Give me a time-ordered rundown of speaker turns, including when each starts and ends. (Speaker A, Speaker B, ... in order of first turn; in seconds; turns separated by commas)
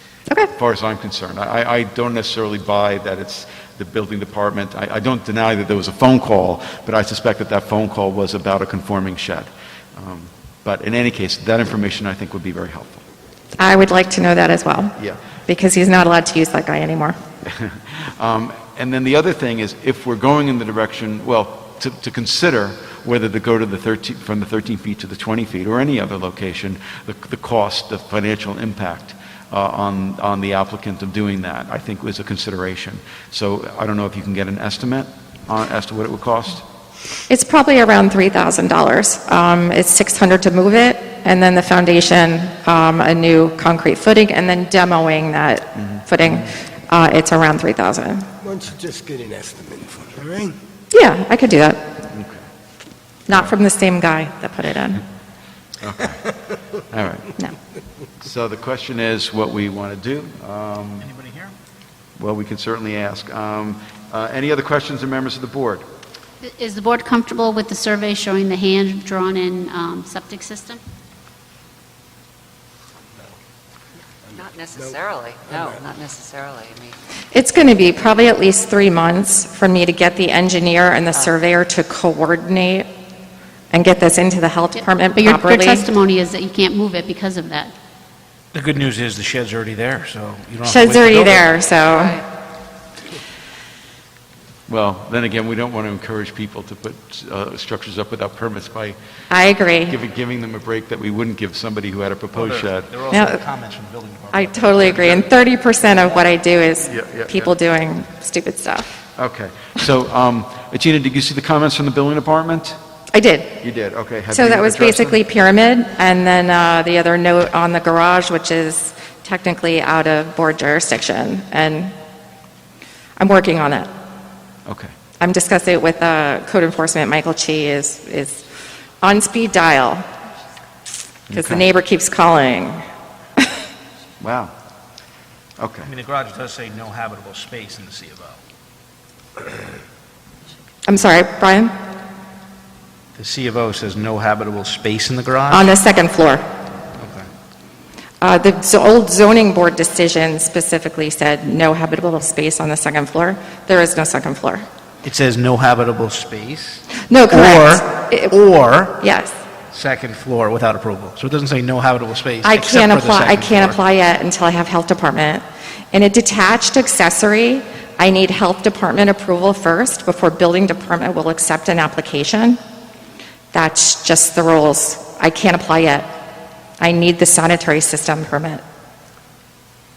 Speaker A: 0.6-13.0, Speaker B: 13.6-17.2, Speaker A: 17.5-36.6, Speaker B: 37.3-48.3, Speaker A: 45.8-46.5, Speaker C: 48.4-50.5, Speaker B: 50.9-51.9, Speaker A: 52.1-52.4, Speaker B: 53.3-55.0, Speaker A: 55.8-56.3, Speaker A: 56.9-57.3, Speaker A: 58.2-61.1, Speaker D: 61.0-61.5, Speaker A: 62.2-65.8, Speaker E: 66.5-70.8, Speaker F: 74.3-77.0, Speaker B: 77.3-82.9, Speaker B: 83.7-85.9, Speaker E: 85.2-87.7, Speaker D: 88.5-91.5, Speaker B: 90.7-92.2, Speaker F: 91.9-92.2, Speaker A: 94.7-99.0, Speaker B: 99.3-100.0, Speaker A: 99.9-102.9, Speaker D: 102.3-106.3, Speaker B: 103.1-103.4, Speaker B: 104.3-108.9, Speaker A: 106.8-107.5, Speaker A: 109.2-112.8, Speaker B: 113.1-113.6, Speaker A: 113.6-115.2, Speaker B: 114.3-121.9, Speaker B: 123.2-123.9, Speaker A: 124.7-124.9, Speaker B: 125.2-128.4, Speaker B: 129.0-130.0, Speaker A: 131.3-131.6, Speaker B: 131.3-132.8, Speaker A: 134.2-134.5, Speaker A: 135.6-135.9, Speaker D: 135.8-138.4, Speaker B: 140.8-141.7, Speaker D: 143.1-145.7, Speaker B: 145.5-146.4, Speaker D: 147.0-147.3, Speaker B: 148.2-154.7, Speaker D: 155.0-159.0, Speaker B: 157.0-158.3, Speaker B: 159.0-159.4, Speaker D: 159.7-163.8, Speaker B: 162.4-172.6, Speaker B: 173.5-176.1, Speaker B: 176.8-178.6